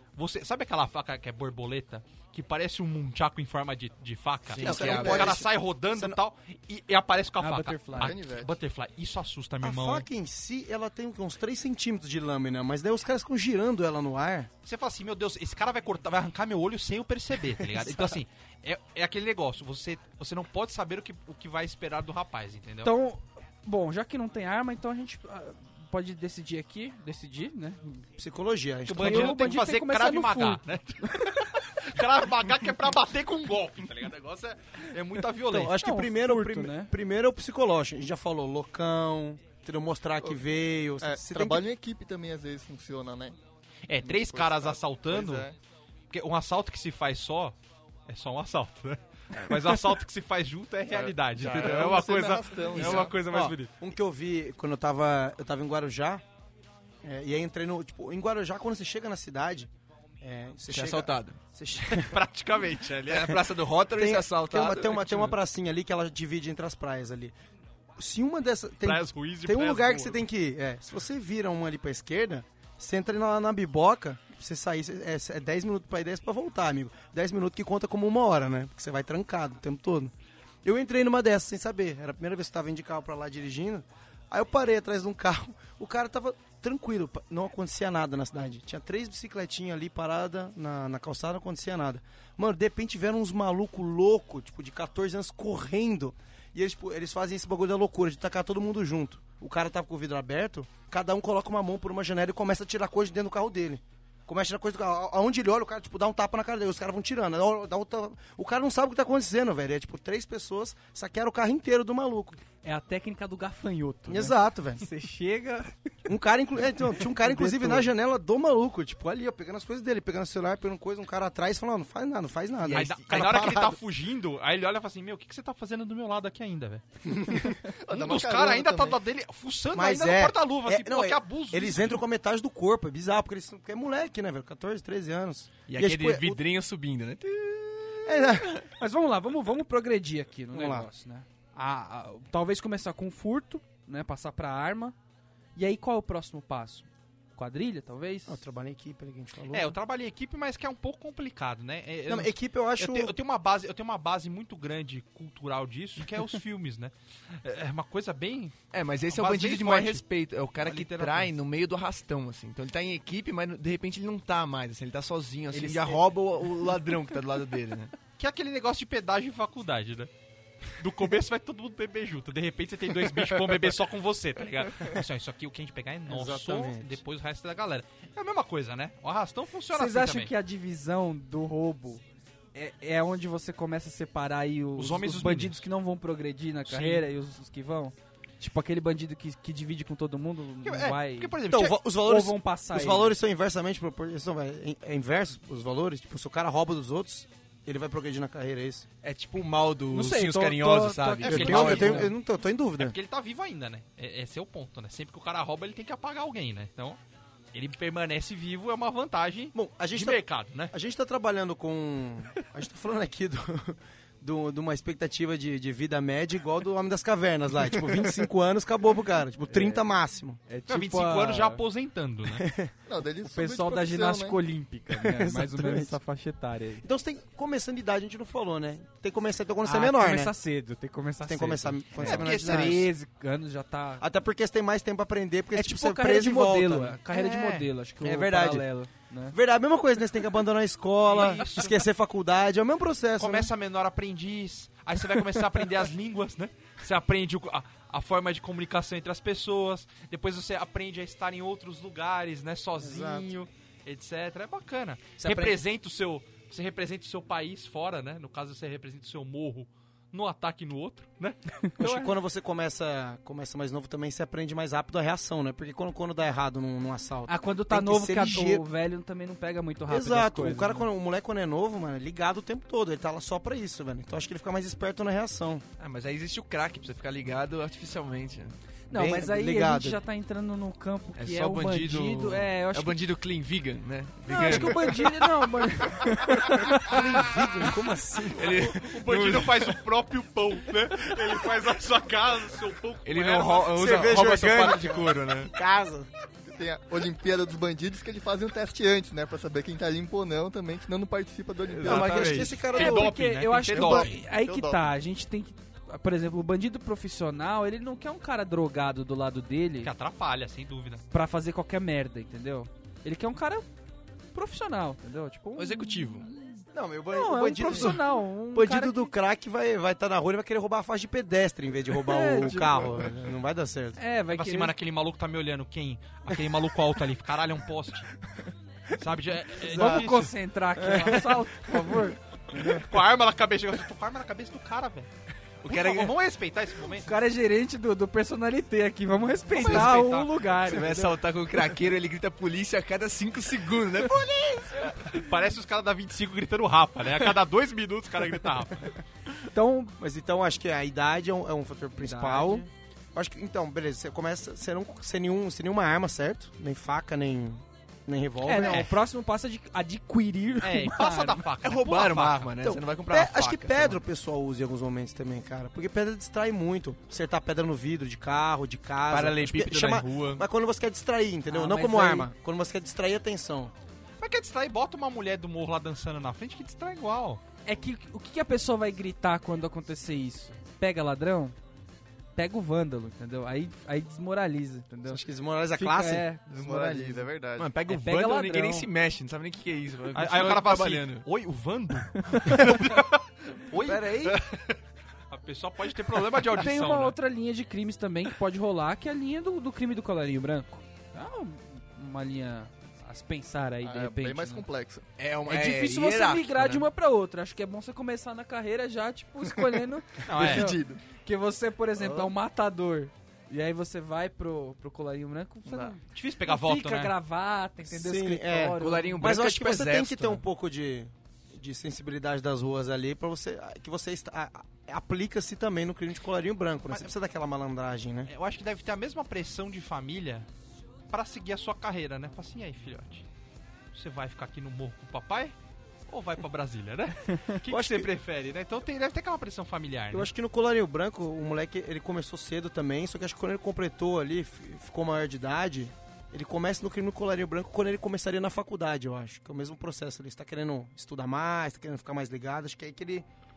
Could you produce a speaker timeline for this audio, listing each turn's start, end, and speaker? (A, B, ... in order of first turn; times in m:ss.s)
0:00.2-0:10.0 A
0:04.5-0:05.4 B
0:04.6-0:06.2 C
0:07.4-0:08.2 D
0:08.0-0:08.5 E
0:09.6-0:14.5 C
0:14.6-0:22.9 A
0:17.7-0:18.1 C
0:22.8-0:28.0 D
0:28.2-0:29.4 C
0:28.8-0:35.7 A
0:28.9-0:30.6 D
0:35.5-0:36.9 D
0:35.5-0:41.6 C
0:41.0-0:43.4 E
0:43.9-0:45.5 A
0:44.0-0:45.5 E
0:46.1-0:47.5 A
0:48.1-0:53.7 A
0:50.9-0:53.2 E
0:51.4-0:51.9 B
0:52.8-0:53.1 B
0:53.2-0:56.2 C
0:57.0-0:59.7 C
1:00.2-1:02.2 C
1:00.7-1:01.4 B
1:01.9-1:03.3 A
1:02.7-1:05.3 B
1:03.9-1:07.3 C
1:08.0-1:52.4 C
1:08.8-1:10.2 A
1:52.6-1:55.7 D
1:54.1-1:54.8 C
1:56.1-2:03.8 C
1:56.9-1:57.9 D
2:02.6-2:03.5 B
2:02.7-2:06.8 A
2:07.5-2:09.0 E
2:07.9-2:12.0 A
2:09.7-2:16.4 C
2:15.7-2:18.6 B
2:18.0-2:18.6 C
2:18.8-2:25.0 D
2:20.5-2:20.9 C
2:25.6-2:28.4 D
2:28.3-2:29.8 C
2:29.5-2:40.0 A
2:32.1-2:33.1 C
2:38.7-2:47.9 B
2:40.6-2:41.3 A
2:48.2-2:50.1 A
2:50.8-3:00.3 A
2:56.1-2:57.0 C
2:59.7-3:02.0 D
3:02.5-3:13.2 D
3:04.8-3:05.6 A
3:06.7-3:07.0 A
3:10.6-3:11.8 A
3:11.5-3:18.8 C
3:19.0-3:22.1 B
3:19.9-3:22.1 D
3:21.2-3:22.1 A
3:21.2-3:23.0 C
3:22.8-3:27.0 A
3:27.5-3:30.7 A
3:29.5-3:30.2 C
3:30.7-3:40.4 C
3:39.5-3:39.8 D
3:40.5-3:41.6 D
3:40.7-3:42.5 A
3:42.4-3:42.7 C
3:42.9-3:44.4 E
3:43.2-3:46.8 D
3:44.9-3:46.0 C
3:46.8-3:50.3 C
3:49.6-3:54.0 D
3:51.2-3:52.9 C
3:52.0-3:52.9 A
3:54.0-3:57.0 C
3:55.5-3:59.4 D
3:57.1-3:57.7 A
3:58.0-3:58.7 C
3:59.3-4:03.5 C
4:01.1-4:01.8 A
4:03.2-4:21.9 A
4:12.8-4:13.3 C
4:15.2-4:15.6 C
4:21.8-4:22.1 D
4:21.8-4:28.6 C
4:27.3-4:30.9 D
4:29.9-4:35.6 C
4:35.8-4:38.6 B
4:38.9-4:43.0 D
4:38.9-4:40.0 C
4:41.1-4:45.4 B
4:44.3-4:47.0 D
4:46.8-4:48.7 C
4:48.3-4:49.8 B
4:48.4-4:53.9 A
4:53.0-4:55.5 B
4:53.7-4:56.1 C
4:56.4-5:02.4 E
5:01.6-5:02.6 B
5:01.8-5:03.2 C
5:02.1-5:04.2 A
5:02.6-5:09.9 D
5:03.7-5:04.9 E
5:09.8-5:11.0 A
5:11.1-5:13.7 D
5:14.3-5:16.4 D
5:15.6-5:16.3 B
5:16.7-5:24.0 C
5:17.1-5:19.1 D
5:22.0-5:23.0 D
5:24.0-5:24.7 D
5:24.3-5:28.1 A
5:28.9-5:30.3 A
5:29.7-5:32.2 D
5:29.7-5:30.0 C
5:30.8-5:31.4 C
5:32.6-5:35.1 A
5:35.6-5:36.1 B
5:35.6-5:37.1 A
5:37.0-5:41.2 D
5:39.5-5:40.3 A
5:39.6-5:39.9 B
5:40.6-5:45.1 B
5:45.0-5:48.9 A
5:49.5-5:50.0 D
5:50.0-5:58.9 C
5:52.0-5:52.7 D
5:58.4-6:01.4 D
5:58.6-5:58.9 A
6:00.6-6:02.5 A
6:01.6-6:04.0 B
6:02.6-6:13.7 C
6:09.1-6:10.4 B
6:11.5-6:12.3 D
6:14.2-6:17.4 A
6:17.6-6:21.6 D
6:22.3-6:25.2 D
6:25.0-6:26.3 C
6:25.8-6:27.3 D
6:26.5-6:27.7 E
6:27.6-6:31.2 B
6:27.9-6:28.9 D
6:30.1-6:34.8 A
6:32.1-6:32.8 D
6:33.9-6:34.3 D
6:35.3-6:37.1 A
6:36.4-6:44.6 D
6:43.8-6:45.1 E
6:45.2-6:46.9 B
6:45.4-6:59.3 D
6:50.2-6:50.7 A
6:50.3-6:51.0 E
6:55.6-6:56.0 E
6:56.1-6:57.1 A
6:57.9-7:08.3 C
6:58.8-7:00.4 B
7:08.3-7:10.5 A
7:11.1-7:13.2 A
7:13.9-7:15.5 A
7:16.1-7:20.3 A
7:17.7-7:18.1 C
7:20.1-7:33.2 C